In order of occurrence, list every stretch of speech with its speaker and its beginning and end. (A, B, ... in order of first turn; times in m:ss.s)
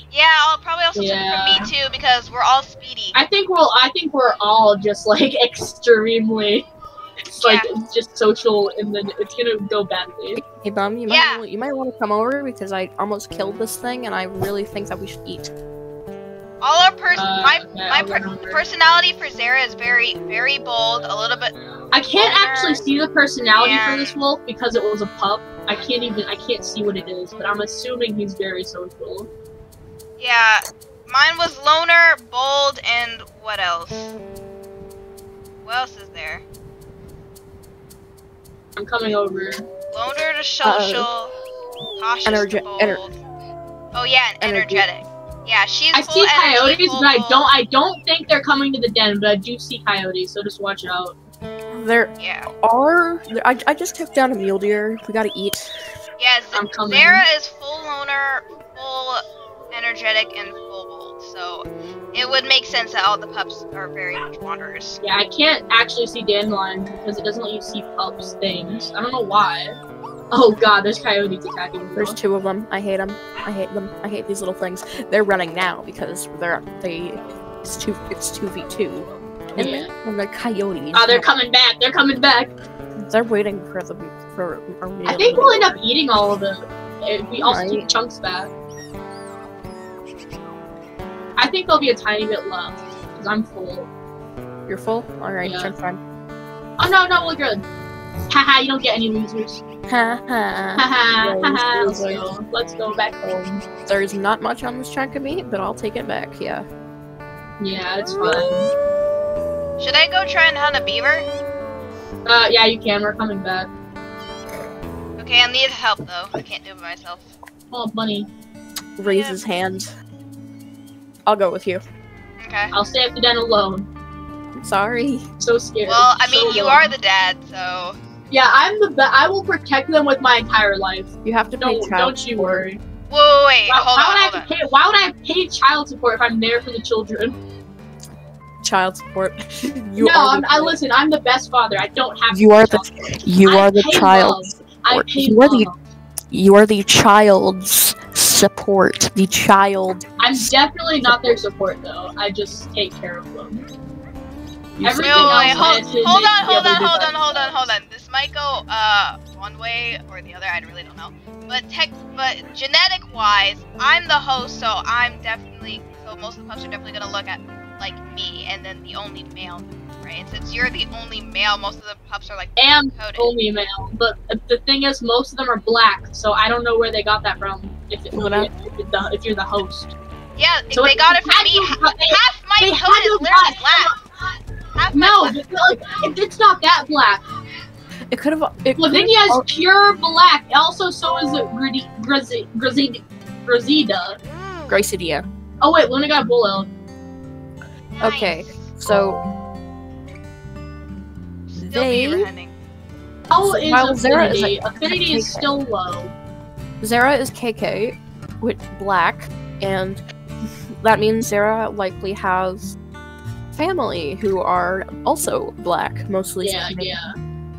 0:00.1-0:03.2 A
0:01.0-0:01.7 B
0:03.1-0:06.7 B
0:07.3-0:10.4 B
0:07.4-0:07.7 A
0:10.4-0:15.5 C
0:11.1-0:11.4 A
0:16.6-0:21.5 A
0:17.2-0:18.6 B
0:21.9-0:29.3 B
0:22.2-0:22.8 A
0:23.6-0:24.2 A
0:30.2-0:34.1 A
0:35.6-0:36.4 A
0:38.8-0:39.6 B
0:39.9-0:41.3 A
0:40.6-0:41.1 C
0:42.0-0:43.2 A
0:42.2-0:43.0 C
0:43.9-0:47.5 A
0:44.4-0:44.8 C
0:45.9-0:51.2 B
0:51.7-0:55.8 C
0:52.2-0:52.5 A
0:56.2-1:05.0 A
0:56.5-0:57.2 B
1:05.0-1:09.8 B
1:10.3-1:12.2 B
1:12.0-1:21.3 C
1:19.6-1:19.9 B
1:20.9-1:22.5 B
1:23.0-1:25.8 C
1:25.1-1:28.5 B
1:27.4-1:27.9 C
1:31.4-1:33.9 B
1:34.7-1:36.0 C
1:35.4-1:35.7 B
1:36.8-1:37.6 B
1:38.3-1:39.6 B
1:39.9-1:42.3 C
1:40.8-1:43.6 B
1:43.8-1:46.7 C
1:47.6-1:48.7 B
1:49.8-1:51.3 A
1:52.2-1:53.7 B
1:55.2-1:57.3 A
1:57.7-1:58.3 B
1:59.0-1:59.9 C
1:59.0-1:59.4 A
2:01.3-2:01.8 C
2:02.4-2:02.7 A
2:02.7-2:03.9 B
2:04.6-2:05.3 C
2:05.4-2:06.9 B
2:05.9-2:08.0 A
2:08.3-2:12.8 B
2:11.2-2:12.7 C
2:13.1-2:14.5 A
2:13.7-2:17.4 B
2:18.6-2:20.8 C
2:20.0-2:25.8 B
2:22.3-2:25.7 C
2:26.3-2:30.5 C
2:30.2-2:33.7 B
2:31.0-2:31.4 C
2:34.8-2:35.8 C
2:34.8-2:37.6 B
2:35.0-2:53.3 A
2:52.6-2:59.9 B
2:58.1-2:58.5 C
3:00.4-3:03.9 A
3:00.7-3:03.9 B
3:04.8-3:05.4 A
3:04.9-3:07.2 B
3:08.1-3:09.5 C
3:08.8-3:14.2 B
3:14.2-3:14.8 A
3:14.7-3:15.3 C
3:15.6-3:16.7 B
3:18.0-3:18.7 A
3:18.0-3:19.2 C
3:21.5-3:22.5 A
3:21.6-3:22.3 C
3:23.3-3:26.1 B
3:23.4-3:25.5 C
3:26.8-3:30.0 C
3:30.8-3:32.8 C
3:33.5-3:37.0 C
3:36.4-3:37.2 B